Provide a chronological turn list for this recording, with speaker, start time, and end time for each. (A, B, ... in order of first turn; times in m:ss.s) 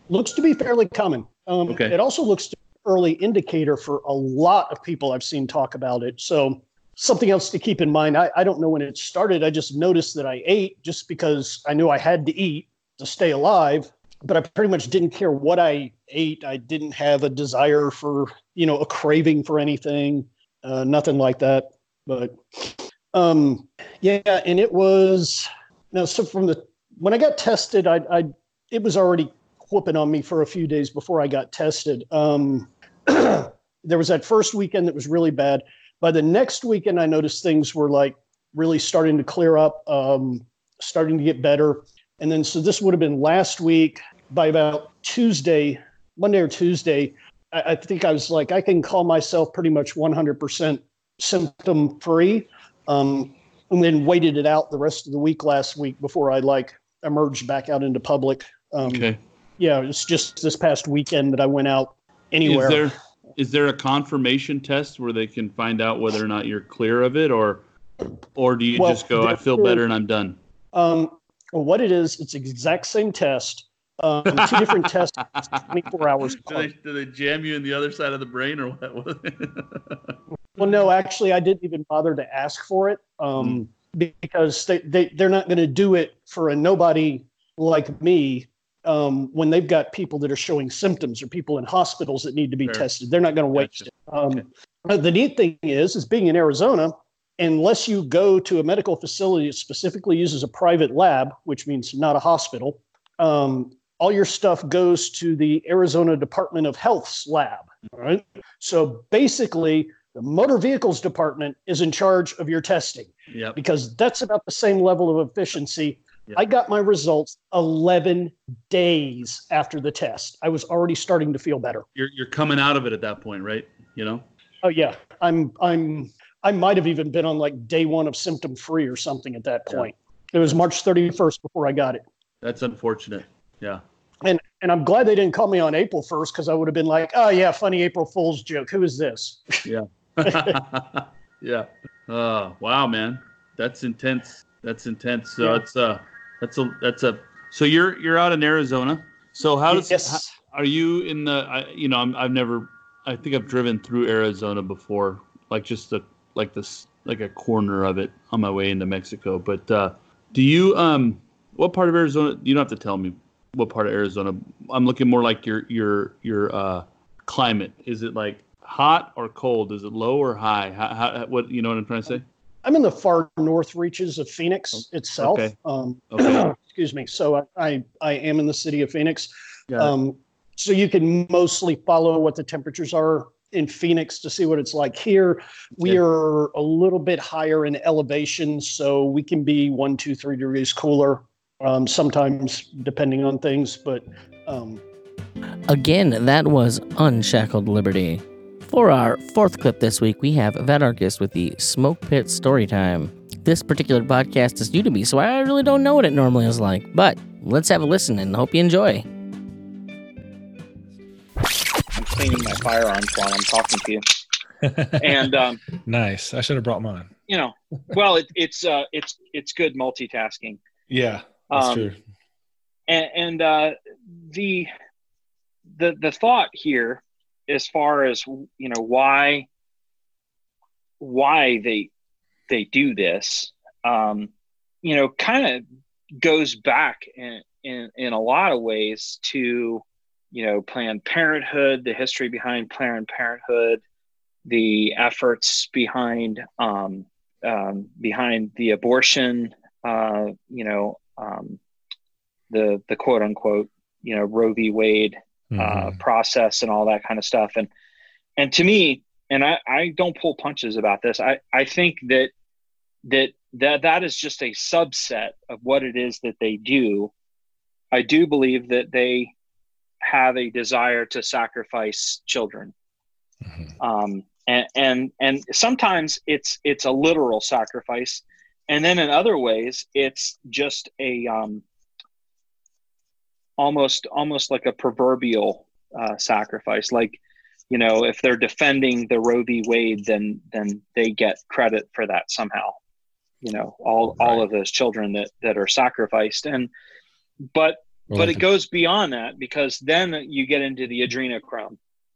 0:00.1-0:59.1 A
0:01.7-0:02.0 B
0:58.8-0:59.2 B
0:59.6-1:02.9 A
1:02.4-1:07.6 B
1:08.4-1:10.4 B
1:08.8-1:09.8 A
1:10.7-1:16.7 A
1:14.3-1:15.6 B
1:16.2-1:20.7 B
1:20.6-2:01.8 A
1:23.4-1:23.6 B
1:32.6-1:32.9 B
1:33.5-1:34.4 B
1:53.3-1:53.6 B
2:02.0-2:04.3 B
2:04.6-2:12.0 A
2:12.4-2:13.8 B
2:14.2-2:19.6 A
2:19.6-2:52.2 B
2:20.2-2:20.6 A
2:29.7-2:30.4 A
2:52.6-3:14.8 A
2:54.7-2:55.6 B
2:56.1-2:56.5 B
2:59.7-3:00.0 B
3:15.7-3:29.1 C
3:32.0-3:34.0 D
3:34.6-3:37.1 E
3:35.0-3:35.6 D
3:37.3-3:40.6 D
3:40.9-3:42.0 E
3:41.5-3:41.9 D
3:42.9-3:43.8 D
3:44.3-3:44.7 D
3:45.8-3:49.5 D
3:51.0-3:51.9 D
3:52.5-3:54.3 D
3:54.8-3:55.6 D
3:56.2-4:03.8 D
4:04.5-4:11.6 D
4:12.5-4:17.7 D
4:15.5-4:16.0 E
4:18.4-4:22.3 D
4:23.1-4:27.1 D
4:27.9-4:29.3 D
4:30.0-4:32.7 D
4:33.4-4:33.7 E
4:33.8-4:41.6 D
4:43.6-4:47.2 D
4:47.7-4:52.8 D
4:53.4-4:56.7 D
4:57.5-5:01.8 D
4:58.1-4:58.5 E